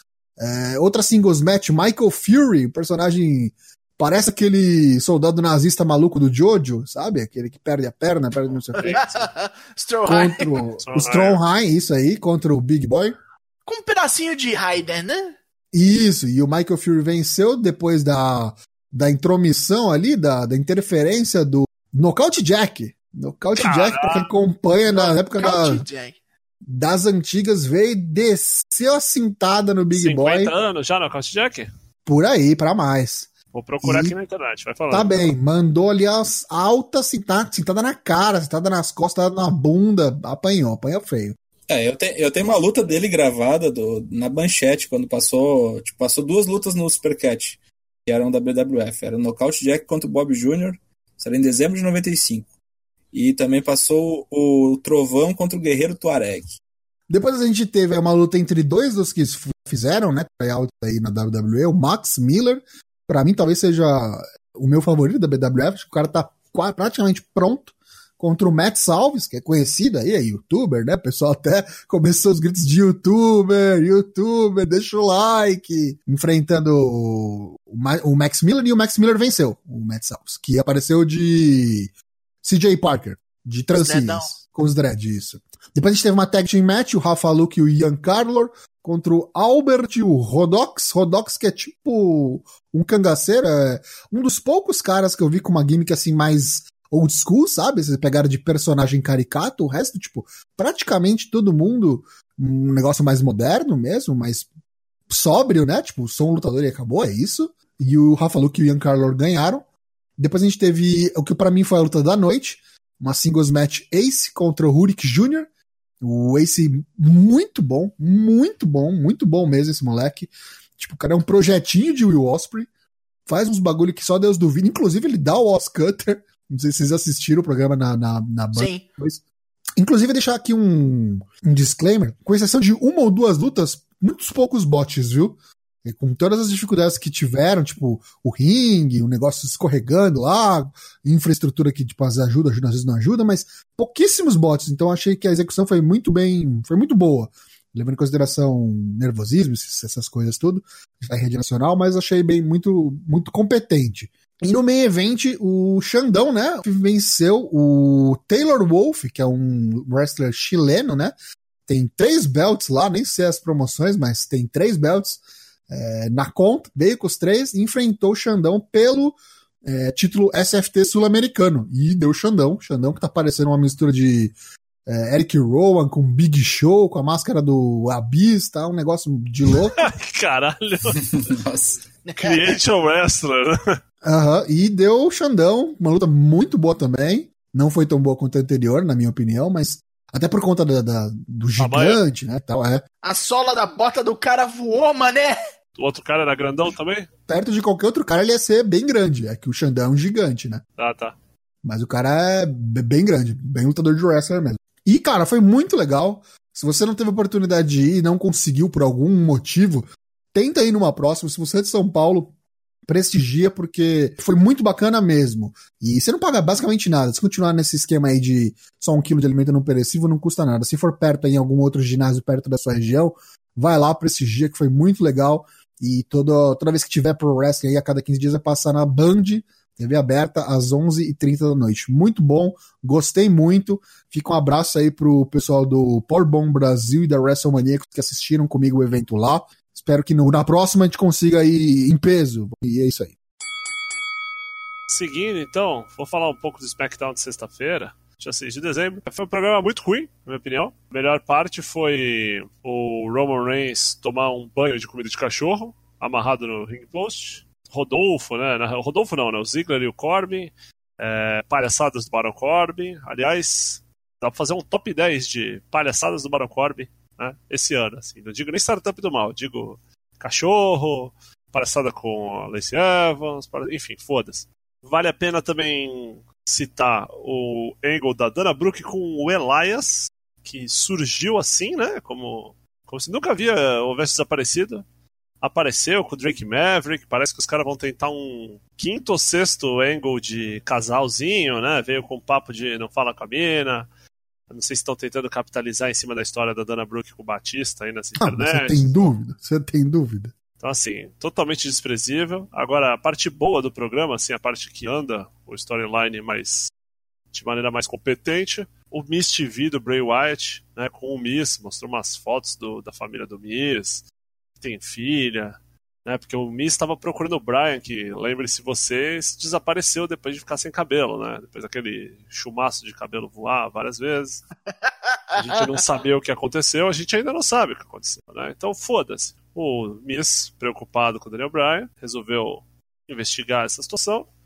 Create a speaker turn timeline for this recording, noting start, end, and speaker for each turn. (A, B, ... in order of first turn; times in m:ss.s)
0:00.4-0:09.2 A
0:08.8-0:09.0 B
0:08.8-0:10.6 C
0:10.0-0:13.2 A
0:10.8-0:11.4 B
0:13.6-0:15.3 C
0:15.7-0:25.8 A
0:23.6-0:24.3 B
0:24.9-0:26.2 C
0:26.6-0:30.5 A
0:29.9-0:31.7 B
0:32.0-0:33.3 A
0:33.5-0:35.2 B
0:33.8-0:34.2 A
0:34.9-0:41.4 A
0:41.7-0:52.5 D
0:53.1-0:56.6 D
0:57.1-1:21.9 A
1:22.4-1:44.5 A
1:23.8-1:24.3 C
1:45.1-1:49.6 A
1:50.2-1:55.5 A
1:56.0-2:02.7 A
2:03.2-2:09.2 A
2:08.5-2:08.8 C
2:09.8-2:41.1 A
2:41.7-2:54.3 A
2:54.9-2:59.9 A
2:59.7-3:01.2 B
3:00.9-3:01.8 D
3:02.0-3:02.6 C
3:02.2-3:03.6 B
3:04.0-3:12.8 A
3:11.6-3:12.0 B
3:13.0-3:15.4 C
3:15.8-3:17.1 B
3:17.3-3:20.6 A
3:20.8-3:21.1 B
3:21.6-3:32.3 A
3:32.9-4:03.1 A
4:04.9-4:44.8 B
4:45.4-4:53.8 B
4:54.5-4:59.1 B
4:58.2-5:00.3 A
5:00.6-5:06.7 B
5:07.3-5:14.0 B
5:14.6-5:24.4 B
5:24.8-5:25.4 C
5:25.4-5:34.2 B